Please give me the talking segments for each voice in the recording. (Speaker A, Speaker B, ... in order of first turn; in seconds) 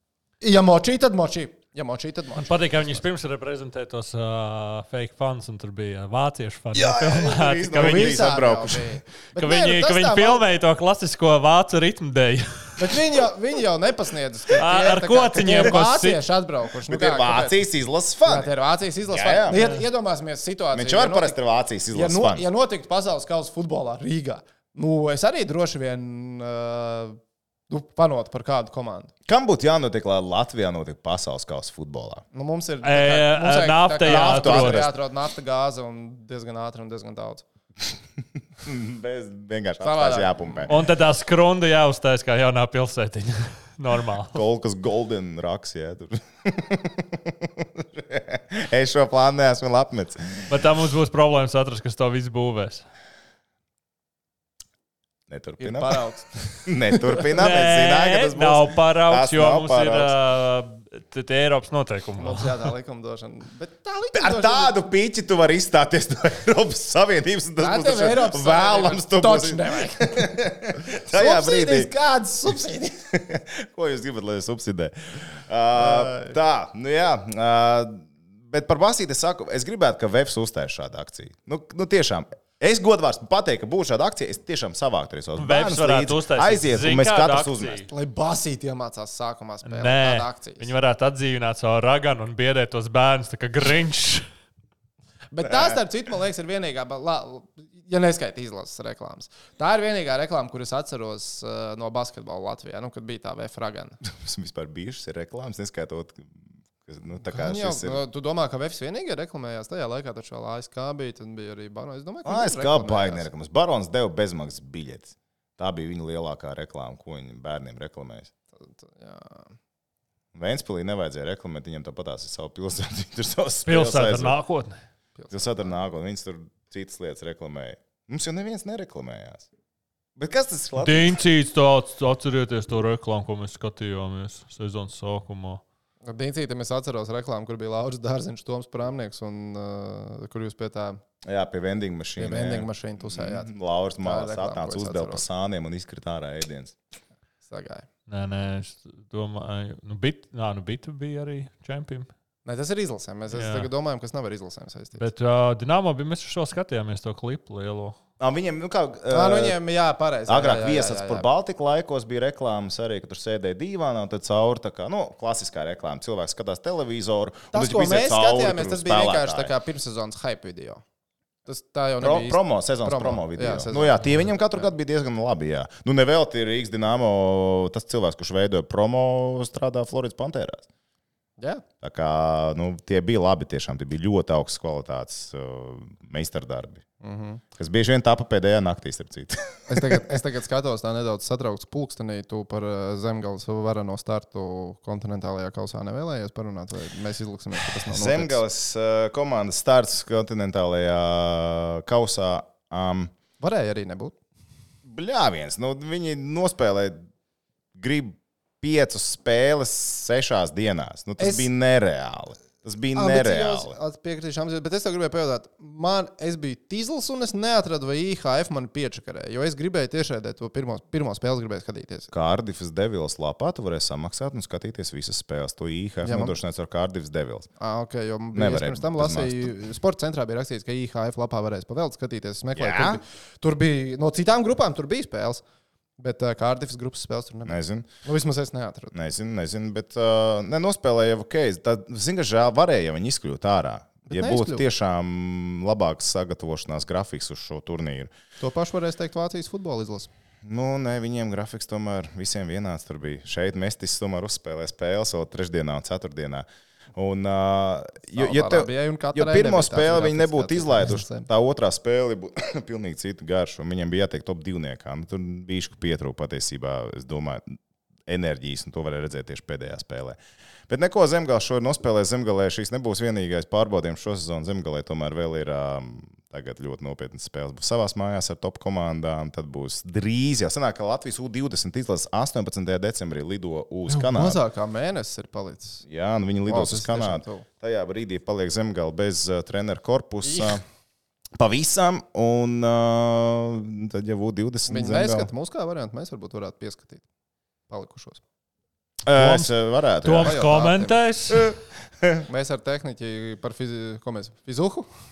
Speaker A: 0.4-3.0, 7.7-10.4, 12.8-17.6, 18.2-21.4, 21.9-29.1, 32.3-37.5, 39.8-40.7, 55.6-57.2, 62.2-64.8, 67.6-70.3, 70.9-73.1, 75.8-76.3, 87.9-90.7, 95.3-104.0, 107.2-113.3, 118.5-119.5, 125.2-125.4, 136.1-141.0, 142.2-145.2, 147.4-147.9, 152.4-155.0, 159.1-161.3, 167.5-170.8, 171.4-174.7, 181.4-181.6, 187.0-187.4, 189.7-198.4, 203.4-204.2, 211.2-211.5, 212.9-222.1, 226.0-226.3, 227.6-235.4, 236.0-238.9, 244.1-244.6, 248.4-250.1, 258.1-261.3, 283.9-285.8, 286.4-287.4, 290.2-290.6, 294.7-297.0, 297.7-298.2, 300.2-301.0, 302.3-304.9
Speaker B: 2.4-8.3, 9.3-12.9, 14.5-16.2, 19.5-19.8, 32.8-34.9, 40.7-44.4, 50.5-52.8, 57.4-62.6, 85.4-87.9, 89.6-94.2, 123.7-124.8, 130.8-135.6, 148.1-152.1, 153.3-153.7, 155.0-158.0, 299.1-299.5, 300.0-301.5
Speaker C: 6.7-8.9, 16.9-18.5, 19.1-19.6, 20.7-22.4, 29.2-32.2, 34.0-34.9, 38.6-40.8, 44.3-50.5, 55.3-56.0, 56.6-60.1, 64.1-71.9, 73.1-87.8, 104.0-108.0, 112.2-118.3, 120.3-124.4, 125.3-129.5, 130.2-131.2, 141.2-146.7, 158.2-159.6, 160.3-169.5, 172.0-180.7, 181.8-186.8, 187.6-190.1, 197.9-203.1, 204.8-207.0, 207.7-213.8, 222.1-227.5, 228.3-229.5, 232.5-233.0, 237.4-237.9, 238.9-248.1, 250.4-267.6, 268.1-270.2, 270.7-284.4, 285.8-290.6, 291.4-295.3, 299.0-300.5, 301.3-302.2